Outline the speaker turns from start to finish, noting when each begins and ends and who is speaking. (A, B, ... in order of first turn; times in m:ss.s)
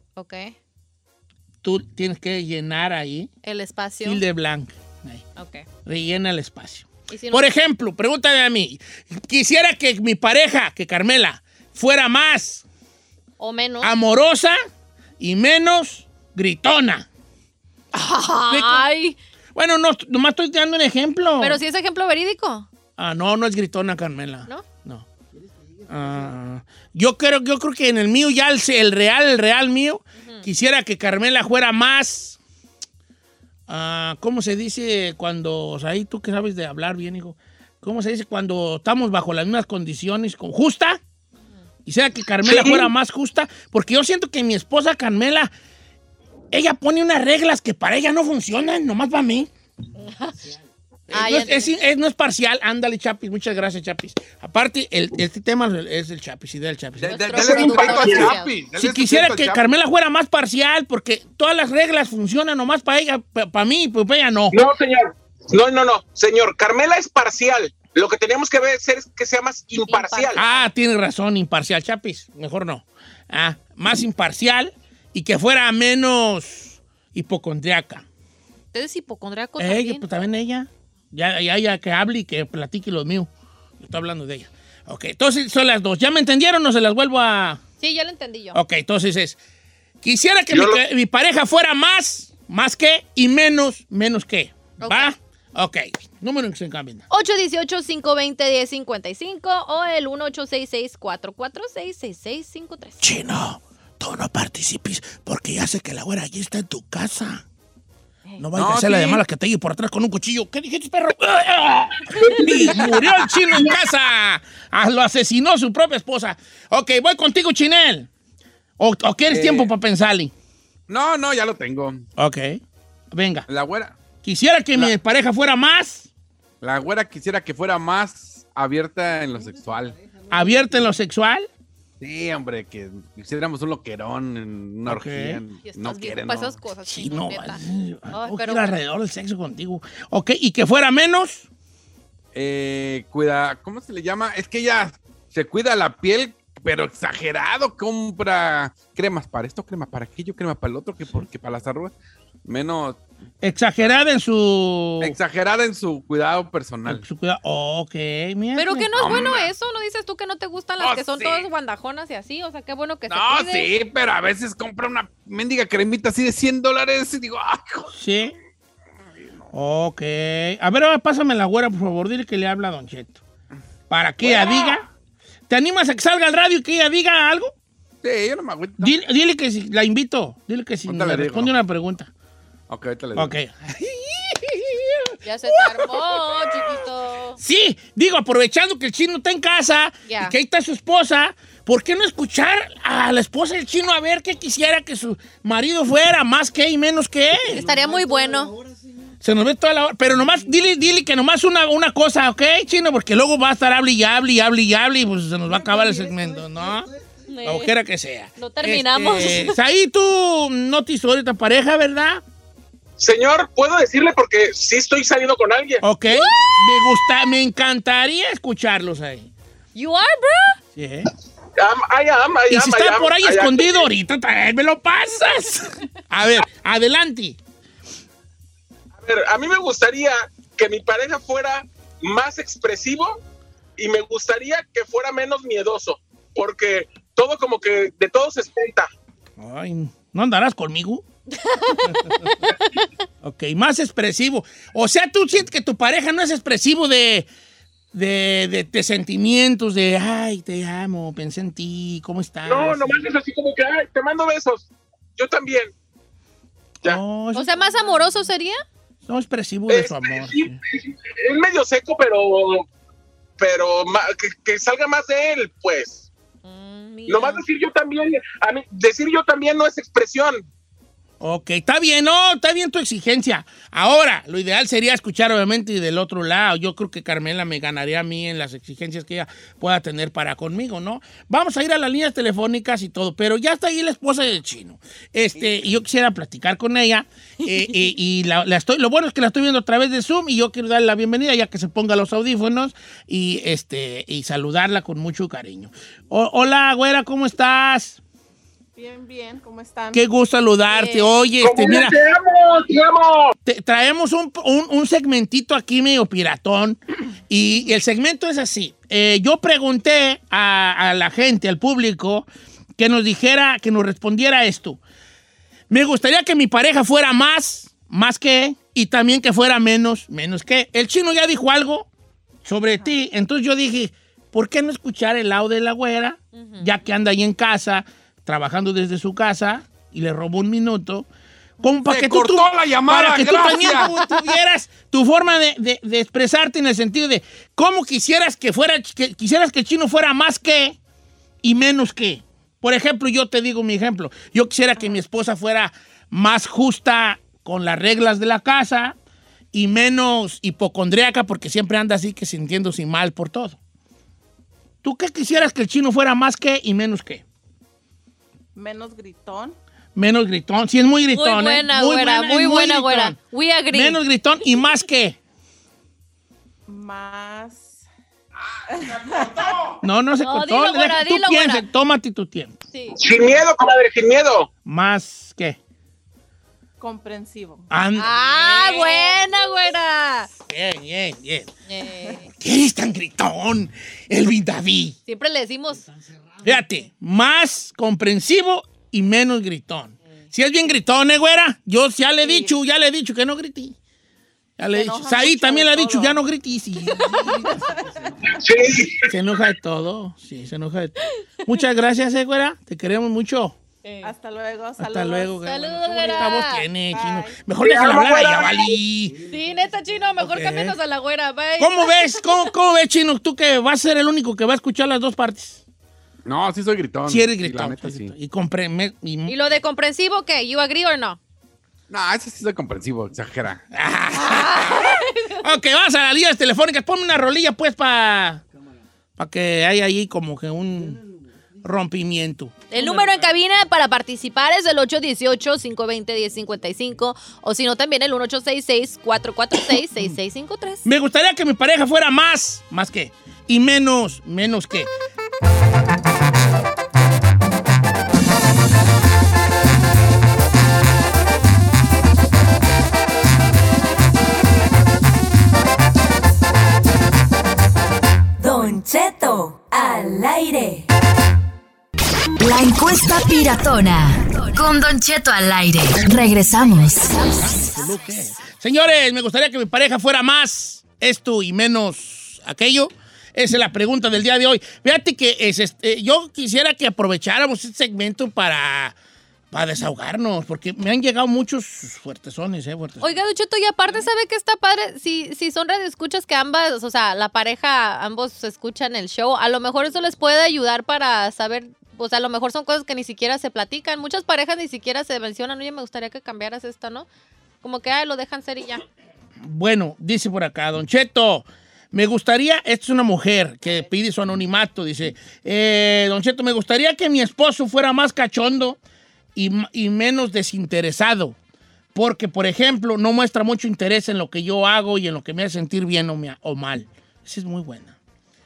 0:00.2-0:00.5 A
0:01.6-0:03.3 B
0:03.4-0:04.2 A
0:04.0-0:05.2 B
0:05.4-0:05.6 A
0:05.8-0:12.6 B
0:07.1-0:07.5 A
0:13.4-0:13.9 A
0:13.8-0:14.6 B
0:15.2-0:17.1 B
0:17.9-0:19.2 A
0:18.5-0:18.9 B
0:19.5-0:21.6 B
0:21.4-0:22.7 A
0:23.0-0:25.0 B
0:25.9-0:32.4 B
0:30.2-0:30.4 A
0:33.7-0:41.0 B
0:41.8-0:45.5 B
0:42.4-0:42.9 C
0:46.5-0:49.5 B
0:50.0-0:50.4 A
0:51.1-0:57.2 B
0:51.1-0:51.7 A
0:57.0-0:59.6 D
0:57.0-0:58.5 A
0:57.3-0:58.3 C
0:58.8-1:04.6 B
1:04.5-1:10.4 C
1:09.9-1:10.7 A
1:10.4-1:18.0 B
1:18.7-1:20.0 A
1:19.6-1:27.6 B
1:27.8-1:28.6 A
1:28.5-1:29.4 B
1:30.0-1:37.0 B
1:30.5-1:30.8 C
1:34.8-1:35.1 A
1:37.1-1:43.0 A
1:43.0-1:47.4 B
1:48.4-1:58.1 B
1:48.6-1:49.2 D
1:52.2-1:53.7 C
1:58.8-2:00.3 B
1:59.3-1:59.7 D
2:00.9-2:02.0 D
2:02.2-2:02.6 B
2:03.1-2:03.4 B
2:03.5-2:04.0 D
2:04.2-2:06.1 B
2:06.6-2:10.0 D
2:10.3-2:11.5 B
2:12.0-2:16.6 D
2:14.8-2:15.4 B
2:15.6-2:18.7 A
2:16.9-2:21.5 B
2:22.3-2:31.9 D
2:32.4-2:33.0 D
2:33.4-2:35.1 B
2:35.0-2:37.0 D
2:36.8-2:39.1 B
2:38.6-2:43.7 A
2:39.0-2:39.5 D
2:40.8-2:41.5 D
2:43.1-2:47.9 D
2:47.9-2:48.3 B
2:49.5-2:53.2 B
2:53.9-2:54.9 B
2:54.2-2:54.8 D
2:55.5-2:57.5 B
2:58.0-2:58.9 D
2:58.8-3:02.1 B
3:00.9-3:01.5 D
3:02.7-3:03.3 D
3:03.1-3:05.1 B
3:05.2-3:07.4 A
3:07.4-3:17.6 B
3:10.0-3:10.3 A
3:17.4-3:18.5 A
3:19.2-3:26.9 B
3:27.3-3:27.7 A
3:27.4-3:32.2 B
3:28.4-3:29.6 A
3:33.0-3:35.8 C
3:35.8-3:39.3 B
3:36.1-3:37.0 A
3:39.7-3:40.6 A
3:40.7-3:41.1 B
3:41.6-3:43.8 C
3:42.5-3:47.4 B
3:49.0-3:53.2 C
3:53.8-3:58.9 C
3:59.4-4:01.0 B
4:01.4-4:02.8 A
4:01.8-4:02.1 B
4:03.2-4:07.3 B
4:07.9-4:13.0 B
4:12.4-4:15.7 C
4:16.8-4:17.5 B
4:17.3-4:18.6 A
4:19.1-4:20.6 B
4:19.7-4:22.6 C
4:23.4-4:26.1 C
4:26.4-4:27.4 A
4:27.1-4:30.5 C
4:31.2-4:58.0 B
4:47.4-4:47.9 A
4:58.8-5:00.0 E
4:59.9-5:01.9 B
5:00.7-5:01.1 A
5:01.4-5:03.4 C
5:03.4-5:12.2 B
5:12.8-5:14.8 B
5:15.7-5:21.9 B
5:22.4-5:31.1 B
5:26.4-5:26.7 A
5:31.6-5:40.8 B
5:31.8-5:33.9 D
5:33.6-5:33.9 A
5:41.4-5:49.0 B
5:49.5-5:53.6 B
5:54.8-5:57.2 B
5:58.6-5:59.6 E
5:59.9-6:03.2 B
6:01.1-6:04.0 A
6:03.7-6:05.2 B
6:06.7-6:07.8 E
6:08.7-6:09.7 E
6:08.8-6:09.8 D
6:09.8-6:12.5 B
6:10.2-6:11.6 A
6:12.7-6:13.0 A
6:13.0-6:14.5 C
6:14.6-6:15.6 B
6:16.8-6:17.7 E
6:17.7-6:18.1 B
6:18.0-6:20.3 A
6:18.2-6:19.3 E
6:20.5-6:21.5 B
6:21.7-6:22.3 A
6:22.4-6:25.0 B
6:25.1-6:25.9 A
6:26.4-6:33.8 B
6:32.2-6:32.5 E
6:34.6-6:37.6 B
6:34.7-6:36.2 E
6:36.9-6:38.1 E
6:38.2-6:39.0 C
6:39.1-6:43.6 B
6:43.8-6:44.1 A
6:44.0-6:45.4 E
6:44.8-6:49.2 B
6:45.4-6:46.6 A
6:46.9-6:47.4 E
6:47.6-6:48.7 C
6:49.2-6:52.5 A
6:50.2-6:50.8 B
6:51.6-6:55.6 B
6:56.2-6:58.1 D
6:57.1-6:59.4 B
6:59.3-7:01.2 A
7:01.9-7:03.6 D
7:03.7-7:08.4 B
7:04.1-7:05.4 A
7:09.2-7:11.0 B
7:11.6-7:13.1 B
7:12.7-7:20.8 A
7:20.8-7:24.9 B
7:38.4-7:40.8 F
7:42.4-7:47.7 F
7:47.4-7:58.9 B
7:59.5-8:03.1 B
8:03.0-8:17.0 A
8:17.6-8:18.8 A
8:19.4-8:28.8 B
8:29.3-8:31.4 B
8:31.9-8:37.9 B